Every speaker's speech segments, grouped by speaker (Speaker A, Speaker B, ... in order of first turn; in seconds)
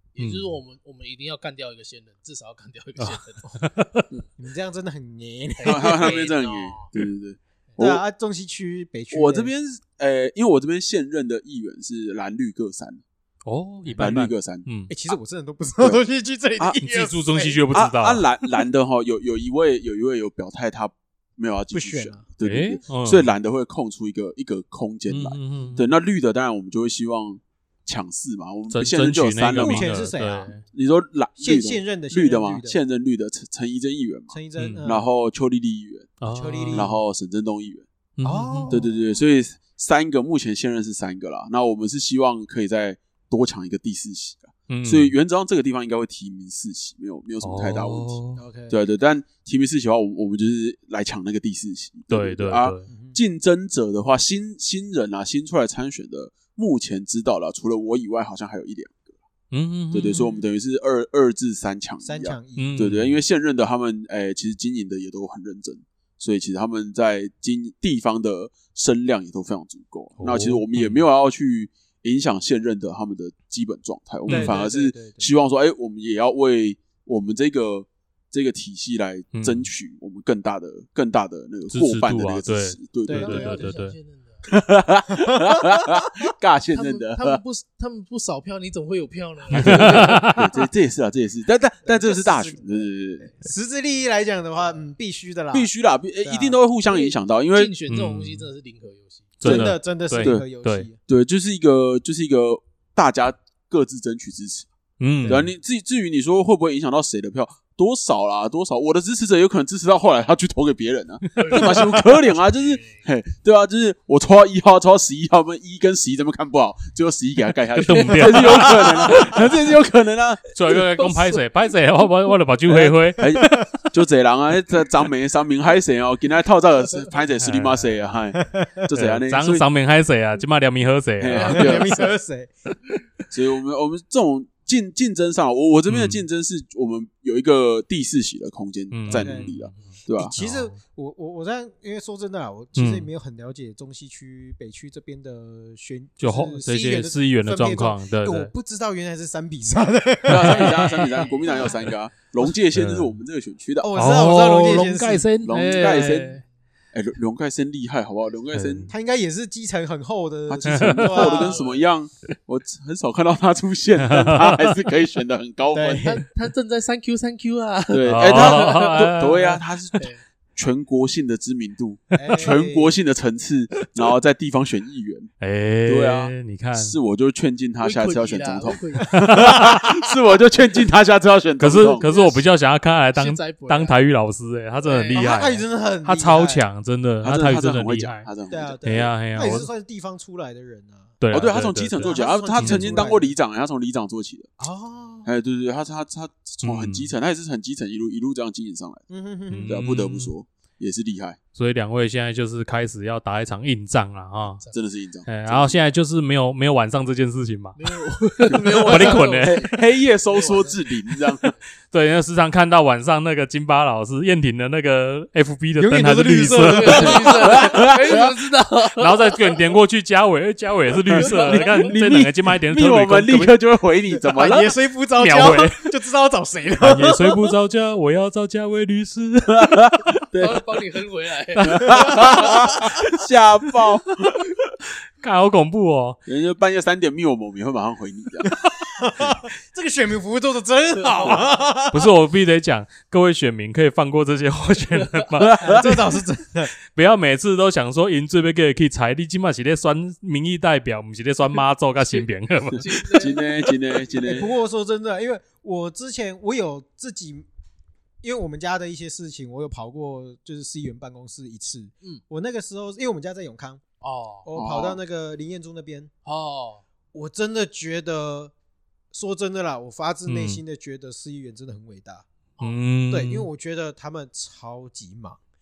Speaker A: 0.1-3.6, 5.5-6.9, 83.2-84.5, 86.7-90.3, 96.9-99.4, 111.4-113.1, 117.9-119.4, 120.7-121.4, 151.2-151.7, 161.2-161.9, 166.0-169.2, 177.8-179.4, 182.0-182.4, 183.1-184.0, 207.8-210.9, 216.7-219.6, 221.2-221.9, 230.3-232.5, 241.1-241.4, 252.8-253.5, 264.0-264.5, 266.2-266.9
Speaker B: 0.2-0.5, 3.0-4.1, 13.4-14.9, 16.9-18.2, 22.4-23.3, 25.1-25.9, 28.7-30.6, 34.6-34.9, 36.2-36.9, 38.2-38.7, 44.7-45.1, 47.4-48.4, 52.1-52.9, 59.5-60.3, 62.6-63.2, 70.2-71.1, 74.3-74.6, 79.3-79.7, 81.7-84.0, 89.5-90.5, 97.9-98.5, 99.4-100.9, 105.0-105.5, 111.4-111.9, 117.8-119.2, 120.5-123.7, 127.4-127.9, 128.9-132.0, 135.9-136.2, 138.9-139.7, 140.3-140.8, 142.8-143.1, 146.2-148.5, 150.3-151.1, 152.7-153.1, 153.9-156.4, 158.5-158.9, 160.6-161.2, 164.0-164.7, 168.1-169.6, 175.4-177.0, 179.1-179.9, 181.6-188.3, 188.8-189.7, 191.2-193.1, 196.6-197.1, 199.5-200.3, 201.6-204.6, 205.3-207.8, 208.7-209.7, 211.9-217.3, 219.0-223.5, 225.1-225.9, 226.8-230.2, 231.6-232.8, 235.2-236.2, 241.9-245.8, 246.9-253.3, 270.3-270.6, 272.6-273.5
Speaker C: 4.4-6.2, 7.8-9.5, 14.9-17.7, 21.7-22.2, 29.6-30.6, 31.4-32.8, 34.3-35.1, 36.3-37.0, 38.2-39.0, 48.4-48.8, 52.9-53.2, 62.0-62.9, 74.3-75.3, 83.1-83.6, 85.2-86.0, 91.8-96.5, 99.4-101.0, 128.5-128.8, 131.4-132.5, 139.1-139.5, 140.2-151.7, 153.8-155.3, 158.9-161.6, 165.7-166.2, 172.2-172.9, 185.1-186.7, 188.5-191.1, 192.0-193.3, 194.6-195.3, 199.1-199.7, 215.8-217.5, 224.1-227.4, 238.4-242.1, 245.6-246.7, 254.2-257.5, 258.2-263.8, 264.4-266.1, 267.1-268.5, 269.1-272.2, 273.1-275.4
Speaker D: 5.7-8.0, 9.1-13.0, 14.0-14.7, 17.7-30.0, 30.7-36.1, 36.7-37.9, 38.7-48.2, 48.7-59.0, 59.9-83.5, 84.5-87.4, 89.6-93.3, 95.5-97.8, 99.4-100.5, 101.0-104.7, 105.2-120.5, 122.7-129.7, 131.2-132.0, 133.3-140.3, 150.3-153.9, 155.4-156.4, 156.9-158.9, 160.7-166.1, 167.9-175.3, 175.9-182.1, 187.2-188.8, 191.3-194.5, 195.2-199.0, 199.7-201.4, 204.7-205.8, 208.5-211.5, 217.4-218.3, 221.1-224.7, 229.6-230.6, 231.6-234.5, 236.3-238.5, 245.3-246.1, 253.1-254.5, 264.6-265.0